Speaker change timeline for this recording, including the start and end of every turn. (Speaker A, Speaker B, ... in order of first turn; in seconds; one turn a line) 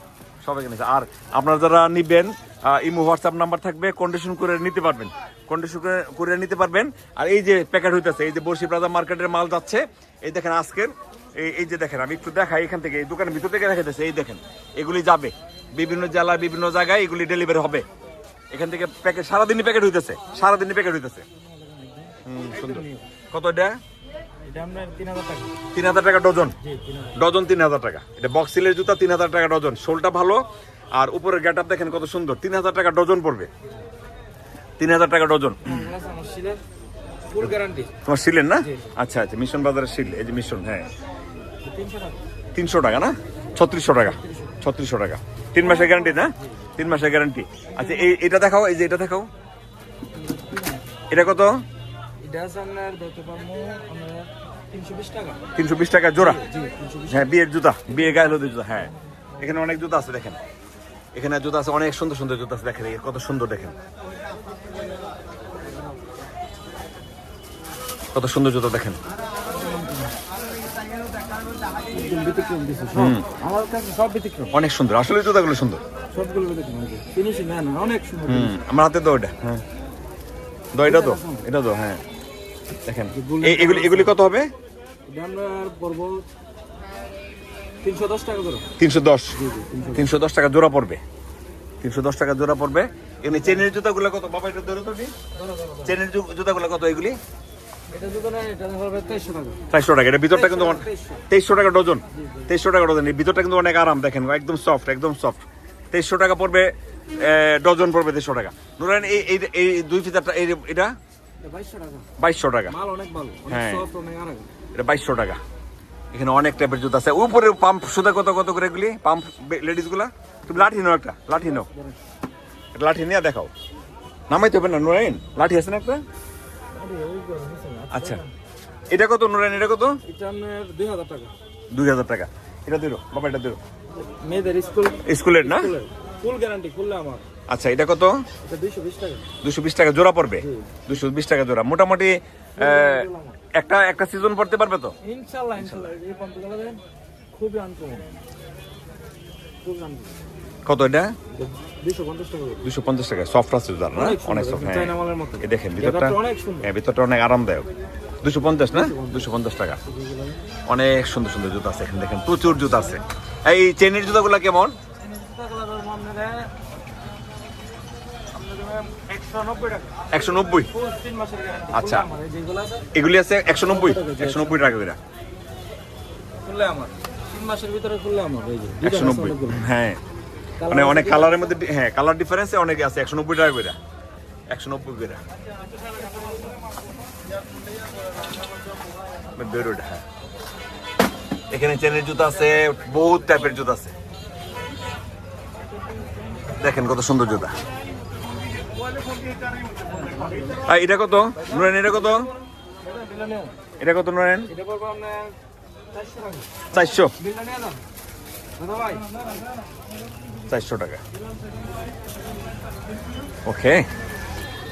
Speaker A: 0.4-17.9
Speaker A: 18.5-21.2
Speaker B: 21.4-23.1
Speaker A: 22.2-23.8
Speaker B: 24.4-25.6
Speaker A: 25.7-26.6
Speaker B: 26.6-27.2
Speaker A: 27.1-33.5
Speaker A: 34.8-35.8
Speaker B: 35.6-36.6
Speaker B: 37.3-37.9
Speaker A: 38.0-40.9
Speaker B: 41.6-42.2
Speaker A: 42.5-49.3
Speaker B: 43.9-44.6
Speaker B: 45.6-46.5
Speaker B: 47.8-48.1
Speaker B: 50.2-50.8
Speaker A: 51.1-51.6
Speaker B: 52.2-55.4
Speaker A: 55.5-56.4
Speaker B: 56.2-57.4
Speaker A: 57.1-60.4
Speaker B: 57.9-59.6
Speaker A: 61.1-63.8
Speaker A: 68.1-69.0
Speaker B: 69.5-70.2
Speaker B: 71.7-74.5
Speaker A: 73.0-73.3
Speaker A: 74.5-75.8
Speaker B: 76.1-78.5
Speaker A: 78.3-79.6
Speaker A: 80.7-82.0
Speaker B: 80.8-81.5
Speaker A: 82.8-84.5
Speaker B: 83.1-84.2
Speaker B: 85.1-86.3
Speaker B: 87.8-88.7
Speaker A: 88.8-89.4
Speaker B: 89.4-90.1
Speaker A: 89.9-91.0
Speaker A: 91.8-95.1
Speaker B: 93.3-93.6
Speaker B: 95.3-96.0
Speaker A: 95.8-97.2
Speaker B: 97.9-99.6
Speaker A: 99.7-110.9
Speaker B: 100.3-101.2
Speaker B: 102.1-102.5
Speaker B: 111.4-112.1
Speaker A: 112.2-112.8
Speaker B: 112.7-114.5
Speaker A: 113.5-113.9
Speaker A: 114.8-115.4
Speaker A: 116.1-121.7
Speaker B: 121.3-122.0
Speaker A: 122.8-123.5
Speaker A: 124.3-126.0
Speaker B: 126.8-128.3
Speaker A: 127.9-128.2
Speaker A: 128.9-130.0
Speaker B: 130.0-131.3
Speaker A: 131.7-133.6
Speaker B: 134.0-137.2
Speaker A: 135.1-135.7
Speaker A: 137.5-138.2
Speaker B: 138.4-139.2
Speaker A: 139.4-144.9
Speaker B: 140.4-140.7
Speaker B: 142.6-143.4
Speaker B: 145.0-146.8
Speaker B: 147.3-148.1
Speaker B: 149.6-150.1
Speaker A: 150.7-151.1
Speaker B: 151.3-152.7
Speaker A: 152.6-157.7
Speaker B: 153.9-156.7
Speaker A: 158.2-159.8
Speaker B: 158.7-159.3
Speaker B: 159.8-160.4
Speaker A: 160.7-164.8
Speaker B: 165.0-166.6
Speaker B: 168.3-170.1
Speaker A: 170.1-170.7
Speaker B: 170.7-172.9
Speaker A: 171.7-172.1
Speaker A: 172.9-175.0
Speaker B: 173.5-174.8
Speaker B: 176.4-179.7
Speaker A: 178.8-180.0
Speaker B: 180.6-181.6
Speaker A: 180.7-183.8
Speaker A: 184.5-185.2
Speaker B: 185.9-186.6
Speaker A: 189.3-190.0
Speaker A: 191.5-193.9
Speaker A: 196.6-197.6
Speaker B: 199.0-200.7
Speaker A: 200.6-202.3
Speaker B: 201.3-203.6
Speaker A: 203.8-204.5
Speaker B: 204.5-205.3
Speaker B: 205.9-207.8
Speaker A: 206.7-207.1
Speaker B: 208.6-209.5
Speaker A: 210.5-211.0
Speaker A: 213.5-213.8